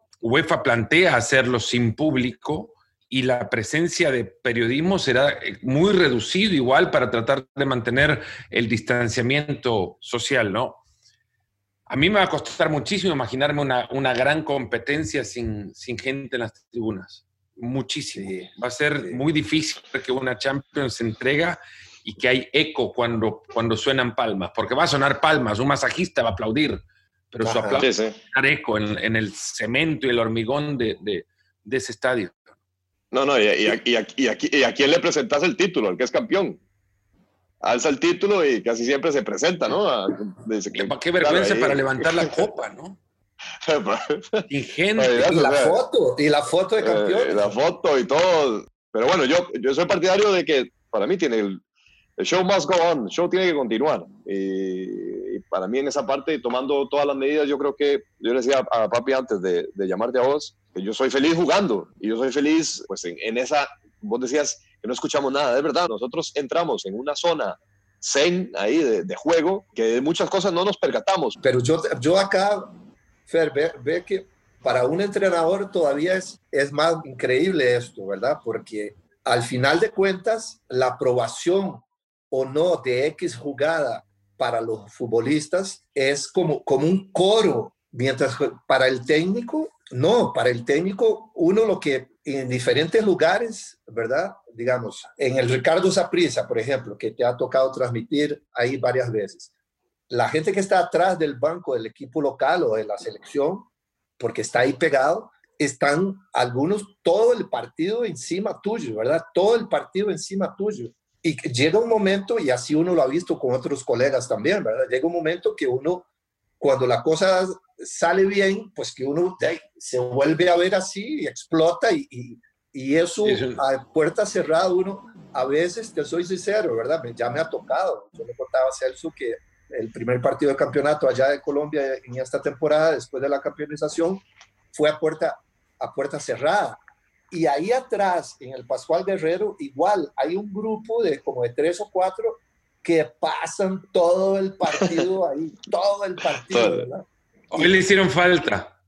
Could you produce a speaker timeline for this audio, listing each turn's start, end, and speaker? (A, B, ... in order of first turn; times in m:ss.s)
0:00.2-0:10.8 A
0:11.9-0:32.4 A
0:18.1-0:19.2 B
0:27.4-0:27.8 B
0:27.8-0:28.2 C
0:33.1-0:36.6 C
0:37.6-0:42.2 C
0:40.7-0:43.0 A
0:43.6-0:44.4 C
0:44.5-0:45.4 A
0:45.0-0:45.8 C
0:45.2-0:47.6 B
0:46.8-0:51.6 C
0:52.2-1:11.4 C
1:11.4-1:12.7 B
1:13.3-1:39.5 B
1:40.1-1:56.0 B
1:56.6-2:16.8 B
2:03.2-2:03.6 A
2:17.3-2:27.8 B
2:24.7-2:25.1 C
2:26.4-2:26.9 C
2:27.5-2:28.7 A